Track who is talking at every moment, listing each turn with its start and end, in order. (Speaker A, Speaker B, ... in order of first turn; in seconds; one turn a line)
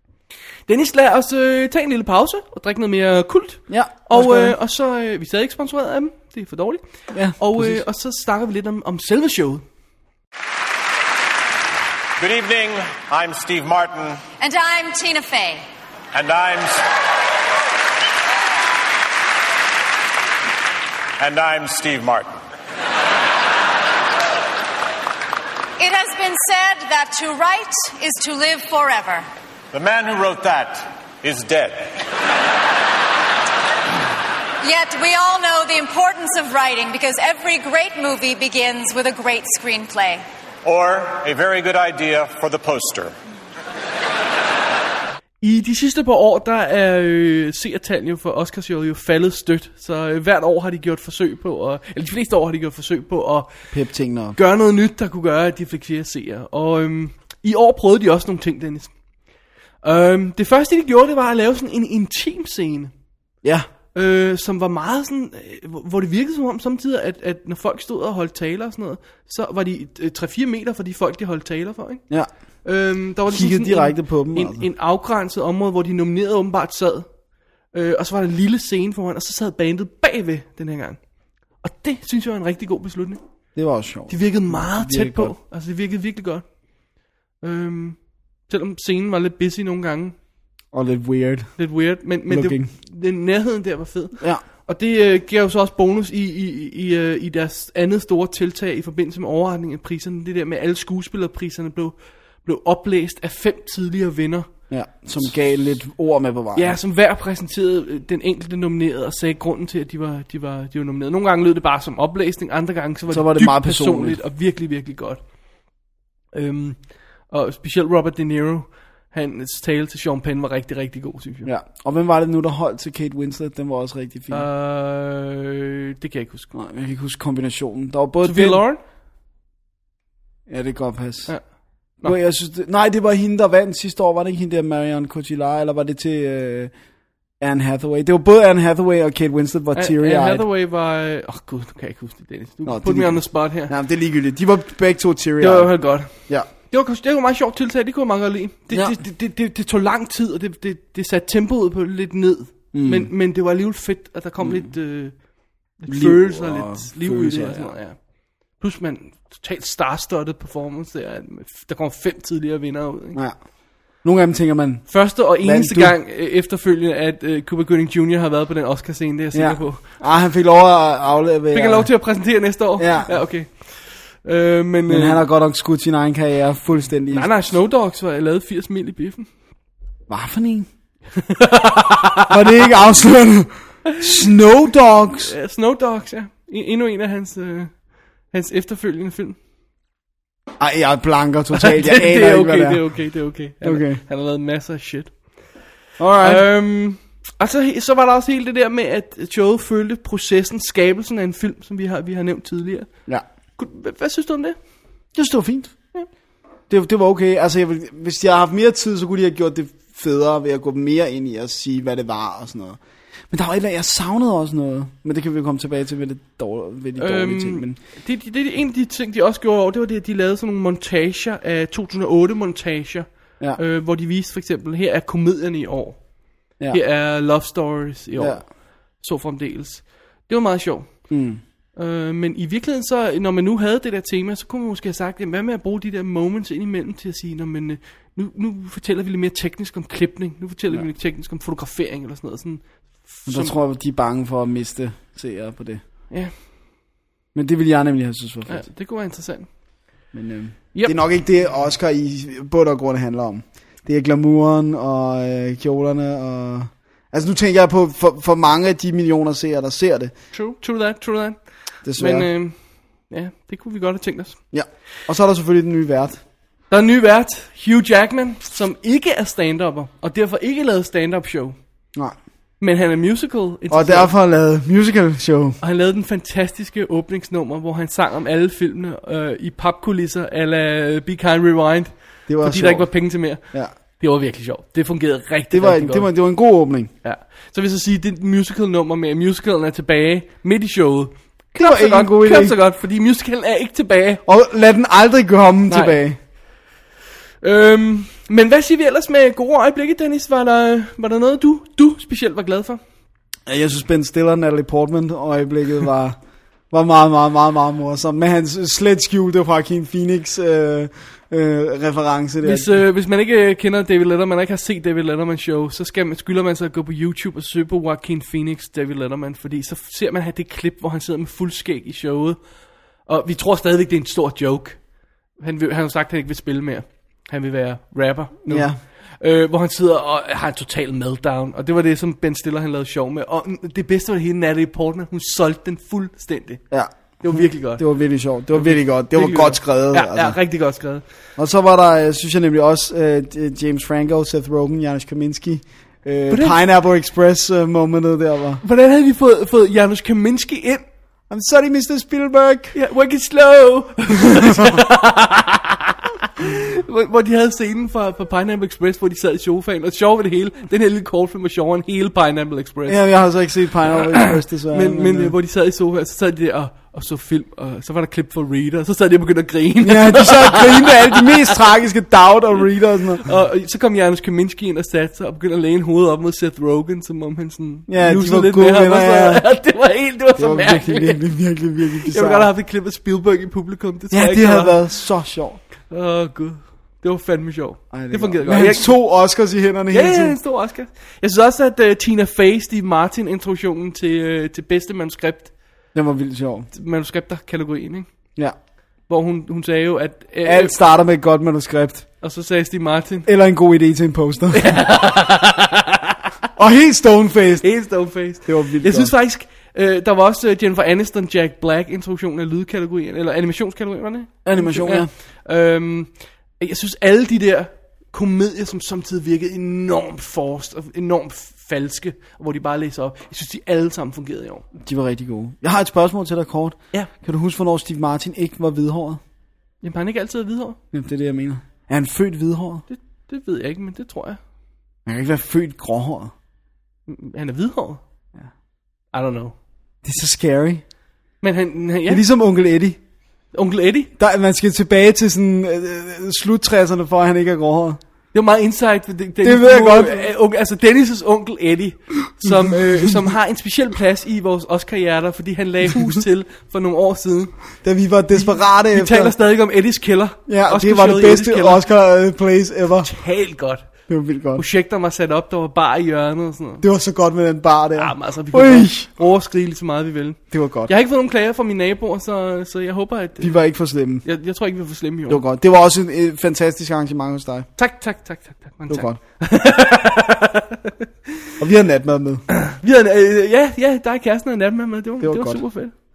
Speaker A: 0.7-9.6
Speaker B: 3.7-4.6
Speaker B: 7.1-7.8
Speaker C: 12.2-14.2
Speaker D: 14.4-15.6
Speaker C: 16.1-16.8
Speaker C: 21.2-22.4
Speaker D: 25.8-29.2
Speaker C: 29.7-32.0
Speaker D: 34.6-40.2
Speaker C: 40.6-43.1
Speaker A: 45.4-53.5
Speaker B: 53.7-54.4
Speaker A: 54.4-58.9
Speaker A: 59.8-62.9
Speaker B: 63.4-63.7
Speaker A: 63.9-72.0
Speaker A: 72.7-77.1
Speaker B: 73.3-74.7
Speaker A: 77.7-81.0
Speaker A: 81.6-83.2
Speaker B: 83.5-85.3
Speaker A: 84.1-86.4
Speaker A: 87.4-90.2
Speaker B: 90.7-91.6
Speaker A: 91.6-104.5
Speaker B: 92.3-92.7
Speaker B: 104.7-106.8
Speaker A: 106.5-115.2
Speaker B: 113.1-114.2
Speaker A: 116.3-121.5
Speaker B: 121.5-124.5
Speaker A: 124.3-126.5
Speaker B: 126.5-128.6
Speaker A: 128.2-128.8
Speaker B: 130.5-131.3
Speaker B: 132.0-136.7
Speaker B: 137.4-140.5
Speaker A: 139.8-143.7
Speaker B: 142.6-146.5
Speaker A: 145.4-155.2
Speaker B: 148.7-149.0
Speaker B: 152.7-153.1
Speaker B: 154.4-154.7
Speaker A: 155.8-158.0
Speaker B: 155.9-157.8
Speaker A: 158.5-163.2
Speaker B: 164.0-166.0
Speaker A: 164.9-169.8
Speaker B: 169.3-171.9
Speaker A: 171.5-175.2
Speaker B: 172.8-173.2
Speaker B: 174.9-177.3
Speaker A: 177.1-179.3
Speaker B: 180.1-180.7
Speaker A: 181.2-182.3
Speaker B: 182.2-185.3
Speaker A: 185.2-187.8
Speaker A: 188.3-189.4
Speaker B: 190.6-192.8
Speaker A: 191.6-195.6
Speaker B: 193.6-194.0
Speaker B: 196.0-196.4
Speaker A: 196.2-202.9
Speaker A: 203.6-204.6
Speaker B: 205.2-205.8
Speaker B: 206.7-217.8
Speaker A: 217.0-226.1
Speaker A: 226.7-231.0
Speaker B: 228.2-228.4
Speaker B: 231.1-231.4
Speaker A: 231.8-243.5
Speaker B: 243.3-245.8
Speaker B: 247.3-248.7
Speaker A: 248.5-249.5
Speaker B: 250.1-260.1
Speaker A: 260.3-261.4
Speaker B: 261.9-262.3
Speaker A: 262.0-262.6
Speaker A: 263.1-264.4
Speaker B: 264.5-266.2
Speaker A: 266.7-271.6
Speaker A: 272.6-274.1
Speaker B: 273.7-275.6
Speaker A: 275.6-283.4
Speaker B: 282.3-282.9
Speaker B: 283.4-283.7
Speaker A: 284.0-286.1
Speaker B: 285.5-286.9
Speaker A: 287.0-294.2
Speaker B: 291.6-292.6
Speaker B: 294.3-296.2
Speaker A: 295.7-296.0
Speaker A: 297.4-302.8
Speaker B: 303.5-306.2
Speaker B: 306.7-312.7
Speaker A: 312.4-322.4
Speaker A: 323.1-324.8
Speaker A: 325.4-336.6
Speaker B: 328.5-328.8
Speaker B: 336.7-340.4
Speaker A: 337.2-337.8
Speaker A: 338.6-341.0
Speaker B: 341.4-348.6
Speaker A: 346.3-346.6
Speaker A: 348.6-350.8
Speaker B: 351.3-352.8
Speaker A: 352.7-363.0
Speaker B: 354.4-354.8
Speaker B: 362.9-365.3
Speaker A: 364.2-371.6
Speaker B: 369.8-373.3
Speaker A: 373.2-381.2
Speaker B: 377.9-379.4
Speaker B: 380.4-382.5
Speaker A: 382.1-384.8
Speaker B: 384.1-385.6
Speaker A: 385.9-389.0
Speaker B: 387.9-390.4
Speaker A: 389.9-395.5
Speaker B: 395.9-396.7
Speaker A: 396.7-398.1
Speaker A: 399.1-400.8
Speaker B: 400.4-402.1
Speaker A: 402.2-403.3
Speaker B: 403.3-404.8
Speaker A: 404.5-406.2
Speaker B: 406.6-407.7
Speaker A: 407.6-424.6
Speaker B: 408.4-409.1
Speaker B: 414.4-415.1
Speaker B: 424.8-429.2
Speaker A: 429.8-430.8
Speaker B: 430.9-432.8
Speaker A: 432.9-434.4
Speaker B: 435.1-436.3
Speaker A: 437.1-438.0
Speaker A: 439.1-439.6
Speaker B: 440.0-440.8
Speaker A: 441.4-442.2
Speaker B: 442.1-443.0
Speaker A: 443.5-444.1
Speaker B: 444.2-448.0
Speaker A: 448.3-457.6
Speaker B: 449.4-450.3
Speaker B: 452.4-453.1
Speaker B: 457.8-459.4
Speaker A: 458.3-461.9
Speaker B: 460.5-463.1
Speaker A: 463.0-463.9
Speaker B: 464.1-464.6
Speaker A: 464.6-466.8
Speaker B: 466.8-469.1
Speaker A: 468.0-473.5
Speaker B: 470.5-470.9
Speaker B: 473.4-474.3
Speaker A: 474.2-475.4
Speaker B: 475.3-477.7
Speaker A: 477.8-480.9
Speaker B: 478.9-479.2
Speaker B: 481.6-482.4
Speaker A: 482.6-486.0
Speaker B: 485.2-485.6